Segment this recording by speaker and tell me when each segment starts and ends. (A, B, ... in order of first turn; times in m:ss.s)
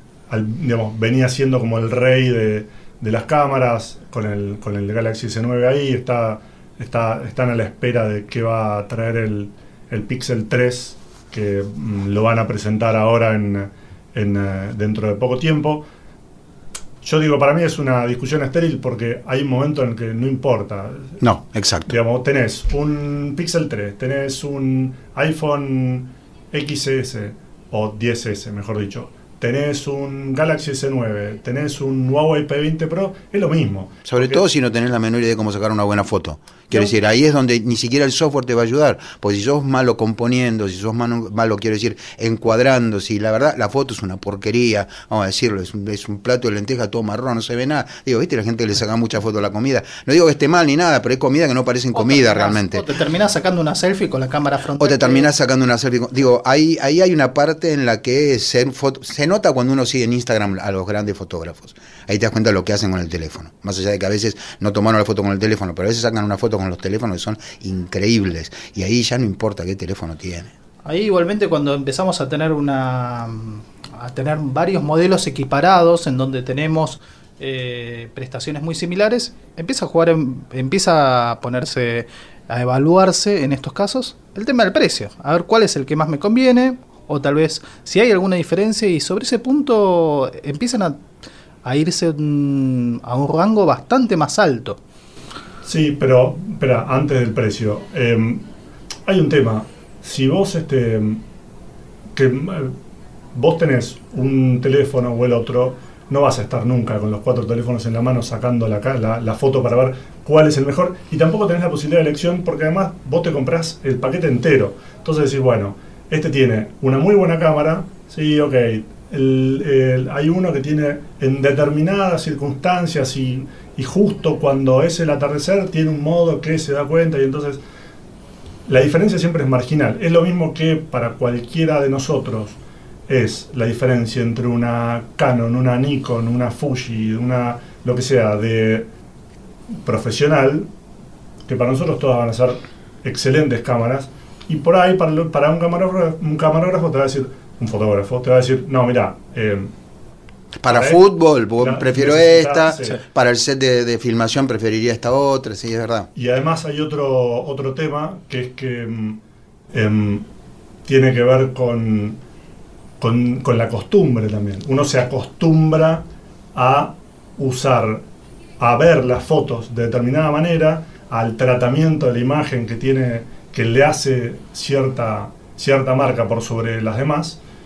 0:00.3-0:15.8 A
0:17.0-0:21.2 A
0:21.2-0:22.0 B
0:21.9-0:34.4 A
0:34.0-0:52.8 B
0:51.9-0:55.3 C
0:54.8-1:10.5 B
1:10.8-1:31.0 C
1:31.6-1:34.8 C
1:35.6-1:38.4 A
1:39.1-1:41.2 A
1:42.1-1:42.7 A
1:43.3-2:07.6 A
2:08.6-2:18.9 A
2:19.8-2:20.7 A
2:21.4-2:29.7 A
2:30.6-2:36.1 B
2:30.7-2:31.0 A
2:31.6-2:33.0 A
2:36.2-2:39.2 A
2:39.7-2:40.2 A
2:40.8-2:42.2 A
2:43.0-2:48.0 A
2:48.6-2:57.4 A